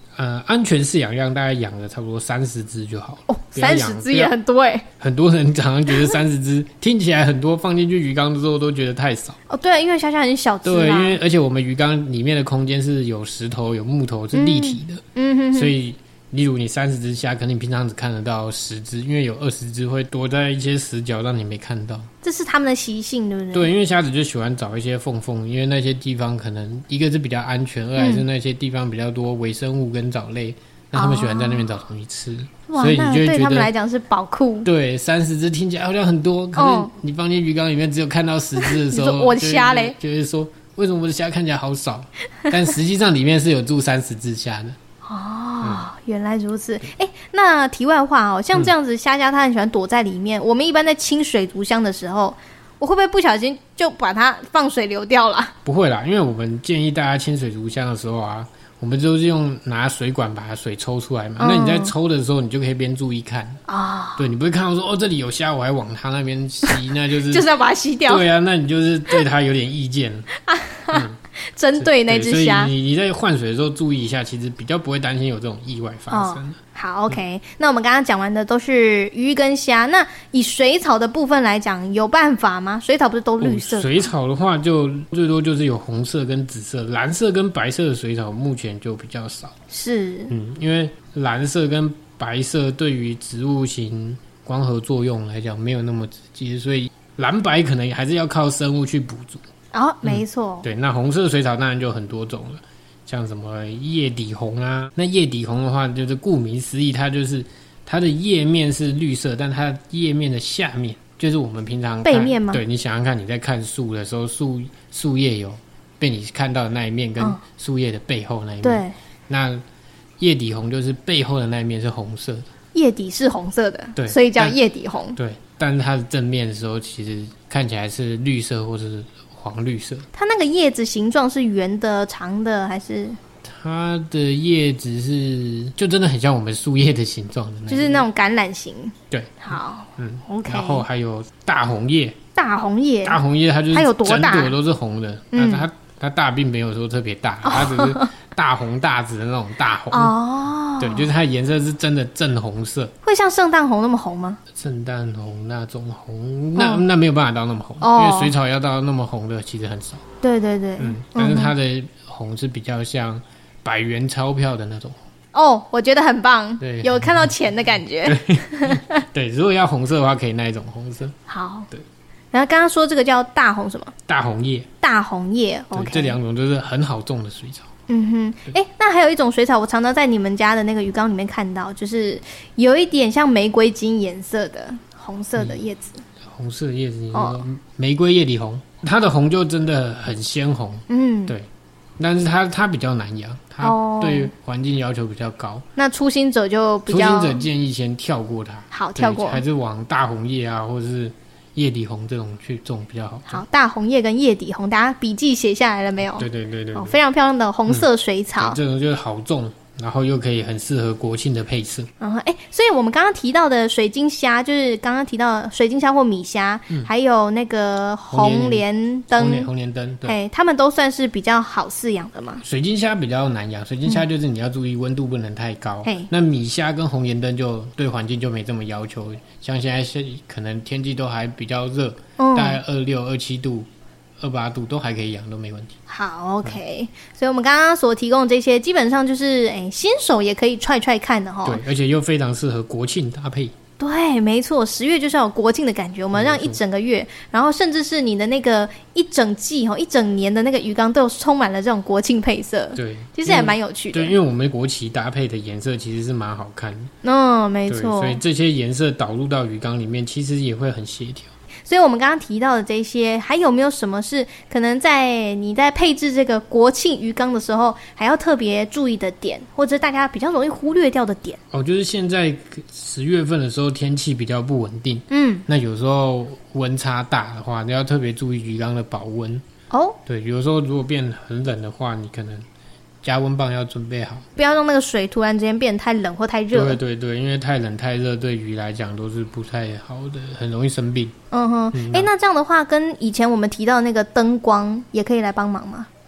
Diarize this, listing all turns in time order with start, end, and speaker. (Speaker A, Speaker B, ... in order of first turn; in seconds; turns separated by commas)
Speaker A: 0.2-4.3, Speaker B: 3.3-4.9, Speaker A: 5.0-9.4, Speaker B: 9.5-11.2, Speaker A: 10.6-15.0, Speaker B: 14.3-15.8, Speaker A: 15.5-22.1, Speaker B: 22.2-23.7, Speaker A: 23.5-33.7, Speaker B: 28.0-28.2, Speaker B: 30.9-31.7, Speaker B: 32.7-34.7, Speaker A: 34.6-44.8, Speaker B: 36.6-36.9, Speaker B: 38.6-40.0, Speaker B: 45.0-55.5, Speaker A: 45.6-45.9, Speaker A: 55.6-63.6, Speaker B: 61.4-62.0, Speaker B: 63.7-64.3, Speaker A: 64.2-67.5, Speaker B: 67.3-68.2, Speaker A: 68.1-70.3, Speaker B: 70.4-72.7, Speaker A: 70.9-71.2, Speaker A: 71.8-76.6, Speaker B: 76.1-84.1, Speaker A: 83.4-89.5, Speaker B: 89.7-90.3, Speaker A: 90.3-99.4, Speaker B: 99.7-100.7, Speaker A: 100.0-119.6, Speaker B: 112.0-112.6, Speaker B: 118.6-119.0, Speaker A: 120.2-122.5, Speaker B: 122.7-125.2, Speaker A: 124.0-124.6, Speaker A: 125.2-130.0, Speaker B: 130.1-133.2, Speaker A: 133.4-138.1, Speaker B: 137.7-140.8, Speaker A: 139.1-139.4, Speaker A: 140.0-142.2, Speaker B: 142.3-143.2, Speaker A: 143.0-150.2, Speaker B: 143.7-144.6, Speaker B: 145.3-145.7, Speaker B: 147.4-148.1, Speaker B: 149.9-151.1, Speaker A: 150.8-152.9, Speaker B: 153.0-154.4, Speaker A: 154.6-160.0, Speaker B: 156.6-156.8, Speaker B: 157.8-158.3, Speaker B: 160.2-161.5, Speaker A: 160.8-165.0, Speaker B: 165.3-169.0, Speaker A: 166.6-167.3, Speaker A: 168.0-171.2, Speaker B: 171.3-171.7, Speaker B: 172.3-173.9, Speaker A: 174.1-174.7, Speaker B: 174.8-176.2, Speaker A: 175.7-177.7, Speaker B: 177.9-186.0, Speaker A: 186.2-191.5, Speaker B: 187.1-187.4, Speaker B: 190.9-191.3, Speaker A: 192.0-195.7, Speaker B: 193.6-194.3, Speaker B: 195.8-197.5, Speaker A: 196.9-203.4, Speaker B: 198.7-199.4, Speaker B: 203.3-208.6, Speaker A: 206.2-207.0, Speaker A: 208.4-211.9, Speaker B: 212.0-219.5, Speaker A: 218.1-220.2, Speaker B: 220.0-222.4, Speaker A: 222.4-233.7, Speaker B: 225.8-226.1, Speaker B: 232.2-232.6, Speaker A: 234.2-235.8, Speaker B: 235.9-241.6, Speaker A: 241.4-243.5, Speaker B: 243.8-254.2, Speaker A: 246.1-246.6, Speaker A: 252.8-256.9, Speaker B: 257.0-258.2, Speaker A: 257.7-261.3, Speaker B: 261.6-271.4, Speaker A: 271.5-279.4, Speaker B: 275.1-275.5, Speaker B: 279.7-280.0, Speaker A: 280.1-282.4, Speaker A: 283.0-284.2, Speaker B: 284.4-286.8, Speaker A: 286.5-291.1, Speaker B: 291.3-295.9, Speaker A: 291.7-292.1